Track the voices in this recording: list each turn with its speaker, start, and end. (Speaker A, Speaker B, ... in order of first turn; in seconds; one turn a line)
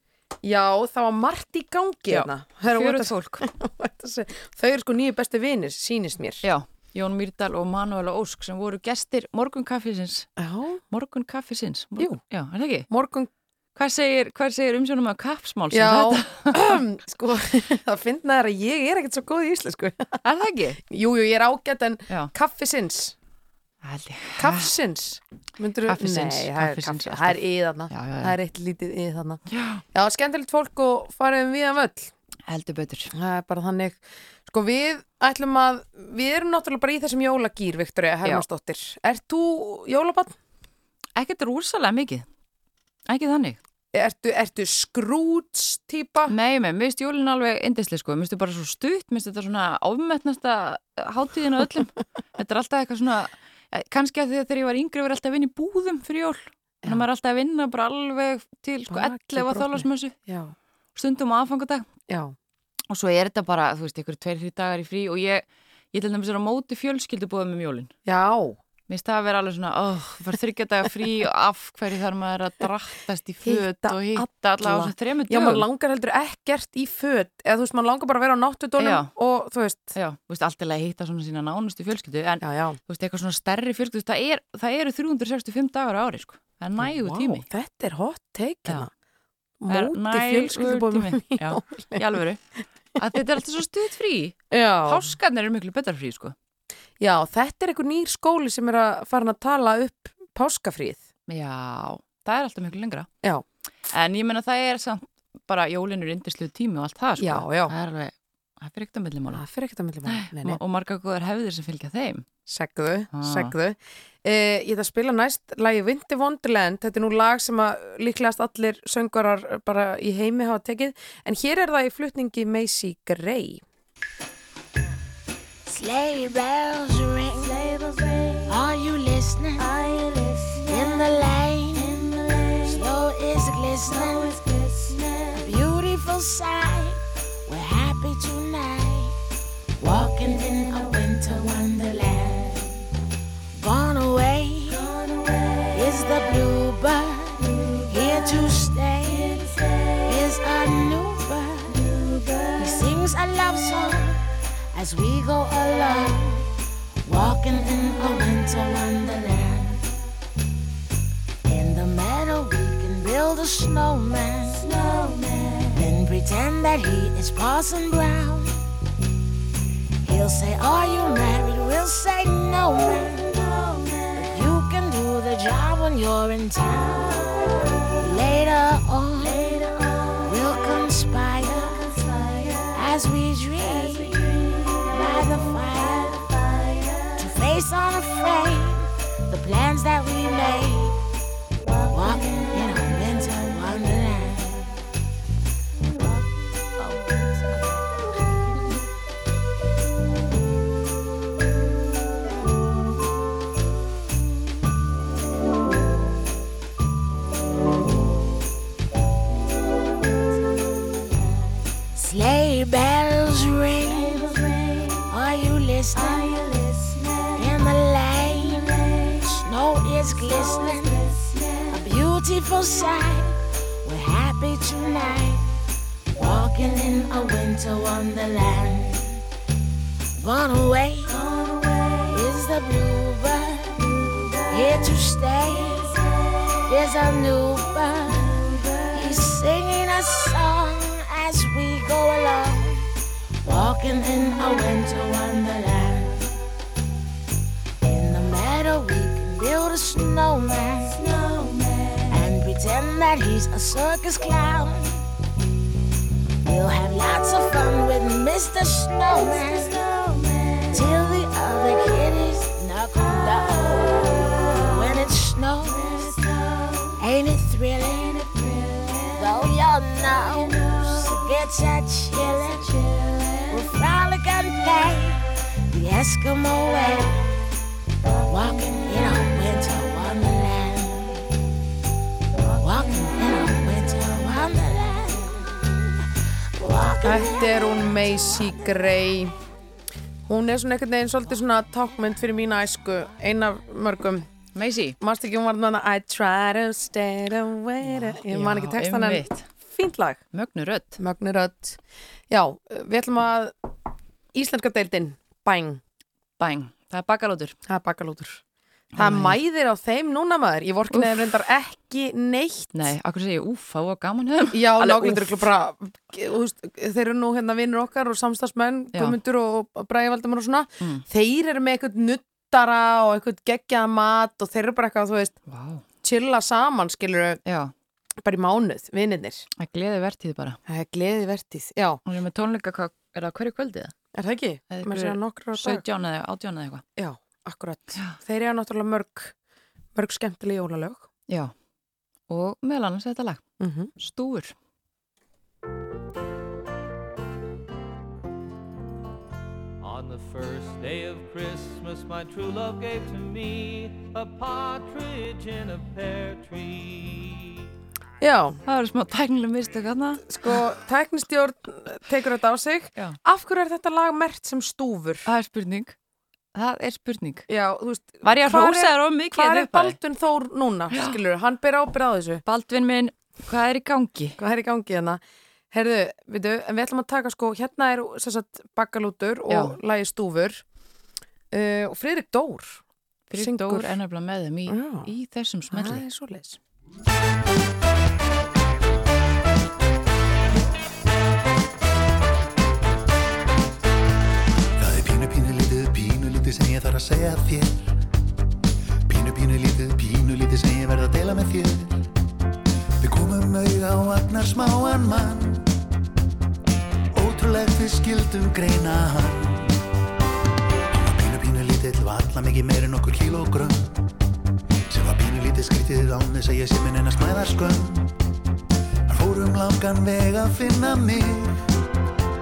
Speaker A: 0.4-6.4
Speaker B: 2.1-3.5
Speaker B: 6.4-10.3
Speaker A: 10.4-10.8
Speaker B: 10.9-12.9
Speaker A: 12.9-13.3
Speaker B: 13.8-16.6
Speaker A: 15.7-20.1
Speaker B: 20.2-20.8
Speaker A: 20.9-23.1
Speaker B: 23.8-24.7
Speaker A: 24.4-29.4
Speaker B: 25.9-28.4
Speaker B: 29.5-29.8
Speaker A: 29.9-32.1
Speaker B: 32.5-33.1
Speaker A: 33.1-40.3
Speaker B: 41.1-42.2
Speaker B: 43.1-43.6
Speaker A: 43.9-46.3
Speaker B: 46.3-60.1
Speaker A: 58.9-60.5
Speaker B: 60.9-61.9
Speaker A: 62.1-62.3
Speaker B: 62.9-67.9
Speaker A: 68.0-68.6
Speaker B: 68.9-75.7
Speaker A: 73.4-79.9
Speaker B: 78.8-79.1
Speaker B: 79.9-87.4
Speaker A: 82.4-82.8
Speaker A: 86.8-88.9
Speaker A: 89.6-92.1
Speaker B: 89.7-92.4
Speaker B: 93.0-96.3
Speaker A: 94.5-95.1
Speaker A: 97.0-101.0
Speaker B: 101.3-103.1
Speaker B: 103.9-109.4
Speaker A: 107.2-107.7
Speaker A: 109.3-110.6
Speaker B: 110.0-112.2
Speaker A: 112.5-123.6
Speaker B: 113.1-113.5
Speaker C: 125.7-127.5
Speaker C: 128.5-129.7
Speaker C: 130.6-132.0
Speaker C: 132.7-134.4
Speaker C: 135.3-139.2
Speaker C: 139.8-142.7
Speaker C: 143.5-144.8
Speaker C: 145.7-149.5
Speaker C: 150.1-151.9
Speaker C: 152.6-156.5
Speaker C: 157.0-159.8
Speaker C: 161.4-164.7
Speaker C: 165.7-168.6
Speaker C: 170.0-173.5
Speaker C: 174.2-177.3
Speaker C: 178.0-179.5
Speaker C: 180.2-181.9
Speaker C: 182.7-186.3
Speaker C: 187.2-190.9
Speaker C: 191.8-194.7
Speaker C: 211.9-214.3
Speaker C: 215.1-216.3
Speaker C: 217.3-218.7
Speaker C: 219.3-221.0
Speaker C: 221.7-225.5
Speaker C: 226.2-229.1
Speaker C: 230.2-231.2
Speaker C: 232.1-233.8
Speaker C: 234.5-236.0
Speaker C: 236.7-242.8
Speaker C: 243.4-246.3
Speaker C: 247.8-251.0
Speaker C: 252.1-255.0
Speaker C: 256.4-259.7
Speaker C: 260.7-266.1
Speaker C: 267.0-268.3
Speaker C: 269.1-272.7
Speaker C: 273.5-277.2
Speaker C: 278.1-281.1
Speaker C: 282.4-285.6
Speaker C: 286.6-287.4
Speaker A: 287.0-289.3
Speaker A: 290.3-294.2
Speaker B: 294.5-295.0
Speaker A: 295.0-300.2
Speaker B: 297.9-299.5
Speaker B: 300.3-301.0
Speaker A: 301.0-303.5
Speaker A: 304.3-305.8
Speaker B: 306.4-307.5
Speaker A: 307.6-308.4
Speaker A: 308.9-312.9
Speaker B: 309.0-309.4
Speaker B: 310.9-311.2
Speaker B: 312.7-315.4
Speaker A: 314.5-325.3
Speaker B: 325.5-325.8
Speaker A: 326.0-327.4
Speaker B: 327.4-327.7
Speaker A: 328.2-329.5
Speaker B: 329.6-330.6
Speaker A: 330.7-332.0
Speaker B: 332.0-333.9
Speaker A: 334.1-335.8
Speaker B: 334.7-336.8
Speaker A: 337.0-339.3
Speaker A: 339.9-341.1
Speaker B: 342.3-343.4
Speaker A: 343.6-343.9
Speaker B: 344.0-344.5
Speaker D: 349.8-357.6
Speaker A: 358.2-358.6
Speaker B: 358.6-360.3
Speaker A: 360.2-365.3
Speaker B: 365.2-365.9
Speaker B: 366.5-367.4
Speaker A: 367.5-372.4
Speaker B: 368.2-369.9
Speaker B: 370.9-371.2
Speaker B: 372.4-374.4
Speaker A: 374.4-380.6
Speaker B: 379.5-379.8
Speaker A: 381.5-382.8
Speaker B: 383.3-386.0
Speaker A: 383.3-383.9
Speaker A: 384.6-385.1
Speaker A: 385.7-386.6
Speaker E: 394.8-397.9
Speaker E: 399.1-402.0
Speaker E: 403.0-405.7
Speaker E: 407.1-409.8
Speaker E: 410.9-414.0
Speaker E: 414.9-418.1
Speaker E: 419.1-421.5